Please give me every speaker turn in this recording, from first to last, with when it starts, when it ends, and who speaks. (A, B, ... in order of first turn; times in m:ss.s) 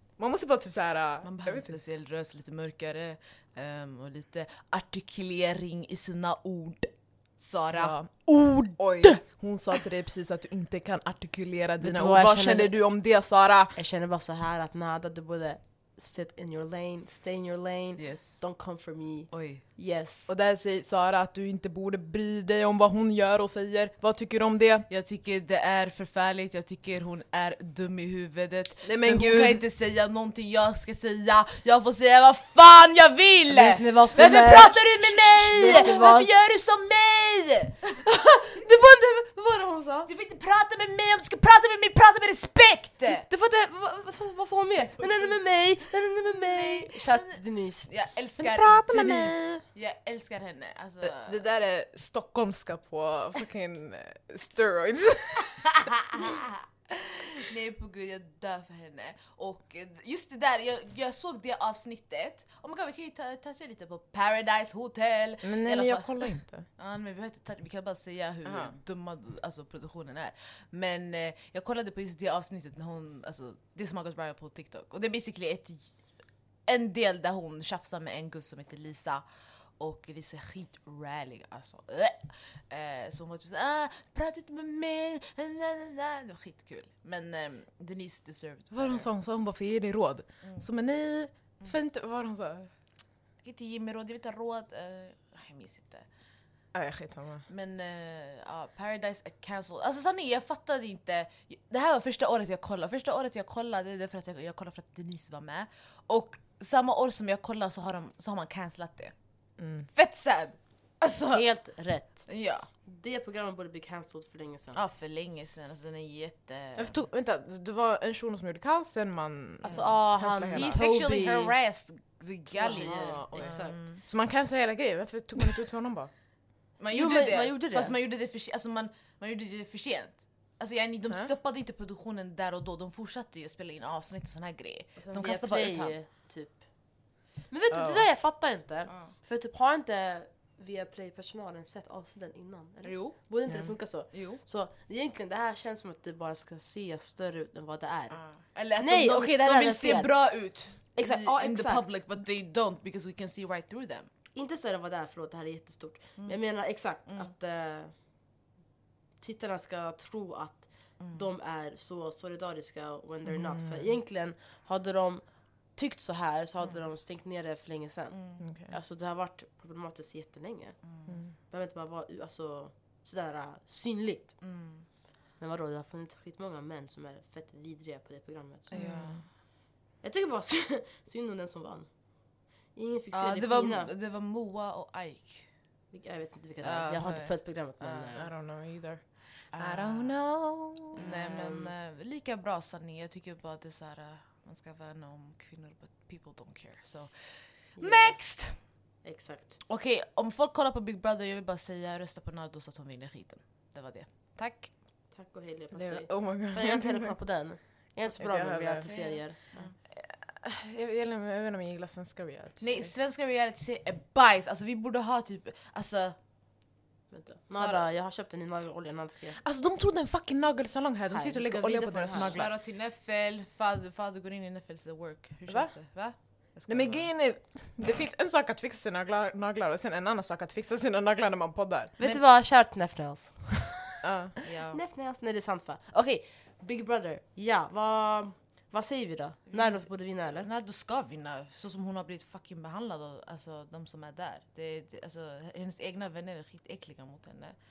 0:00.2-0:01.8 A
0:01.2-0:08.2 B
0:07.7-0:13.8 A
0:08.4-0:08.8 C
0:11.8-0:12.8 C
0:13.7-0:20.3 C
0:18.0-0:18.4 B
0:19.3-0:19.6 B
0:20.3-0:24.9 A
0:24.9-0:38.0 B
0:28.8-0:29.6 A
0:33.5-0:36.3 C
0:38.0-0:40.1 C
0:40.1-0:43.3 B
0:43.1-0:47.9 C
0:46.4-0:51.4 B
0:48.4-0:49.6 A
0:48.9-0:49.6 C
0:51.0-0:56.4 A
0:55.8-1:16.0 B
1:05.4-1:06.7 A
1:08.4-1:08.8 A
1:16.6-1:19.2 B
1:19.8-1:29.1 B
1:28.7-1:32.7 A
1:33.4-1:36.1 B
1:36.7-1:37.5 A
1:37.5-1:49.2 B
1:49.6-1:49.9 A
1:49.9-1:51.4 B
1:51.3-1:52.3 C
1:52.3-1:52.7 B
1:52.8-1:54.8 C
1:54.7-1:57.0 B
1:56.8-2:00.8 A
1:59.6-2:01.6 C
2:00.5-2:04.0 B
2:02.5-2:03.8 C
2:02.6-2:06.1 A
2:06.8-2:16.0 B
2:06.9-2:08.0 C
2:15.0-2:28.2 C
2:17.7-2:18.1 A
2:18.9-2:19.1 B
2:22.8-2:23.3 B
2:23.5-2:23.8 A
2:24.1-2:24.4 B
2:28.1-2:34.1 B
2:28.8-2:30.2 C
2:30.9-2:31.8 C
2:34.3-2:37.9 C
2:36.2-2:37.3 B
2:39.2-2:50.8 C
2:41.0-2:41.3 B
2:43.2-2:43.9 A
2:48.1-2:48.4 B
2:48.4-2:48.8 A
2:50.9-2:51.1 B
2:51.1-2:51.4 A
2:51.5-2:54.5 C
2:54.4-2:54.9 B
2:55.4-2:59.3 C
2:58.7-2:59.2 B
2:58.7-2:59.2 A
3:00.0-3:03.9 C
3:03.1-3:05.5 B
3:05.9-3:08.3 C
3:06.6-3:08.2 B
3:08.1-3:11.1 A
3:09.5-3:10.2 B
3:11.0-3:11.7 C
3:11.0-3:18.6 B
3:17.8-3:18.2 C
3:19.0-3:19.6 C
3:19.7-3:24.7 B
3:25.1-3:29.7 C
3:25.7-3:27.2 A
3:28.2-3:32.9 A
3:28.8-3:29.8 B
3:32.6-3:36.2 B
3:37.1-3:39.4 C
3:37.5-3:37.9 B
3:39.4-3:42.5 A
3:41.1-3:42.4 C
3:42.1-3:47.1 B
3:45.5-3:45.8 A
3:46.7-3:51.9 A
3:52.0-3:54.0 C
3:54.0-3:54.3 A
3:54.4-3:54.8 B
3:54.7-4:00.5 C
3:59.5-4:07.6 B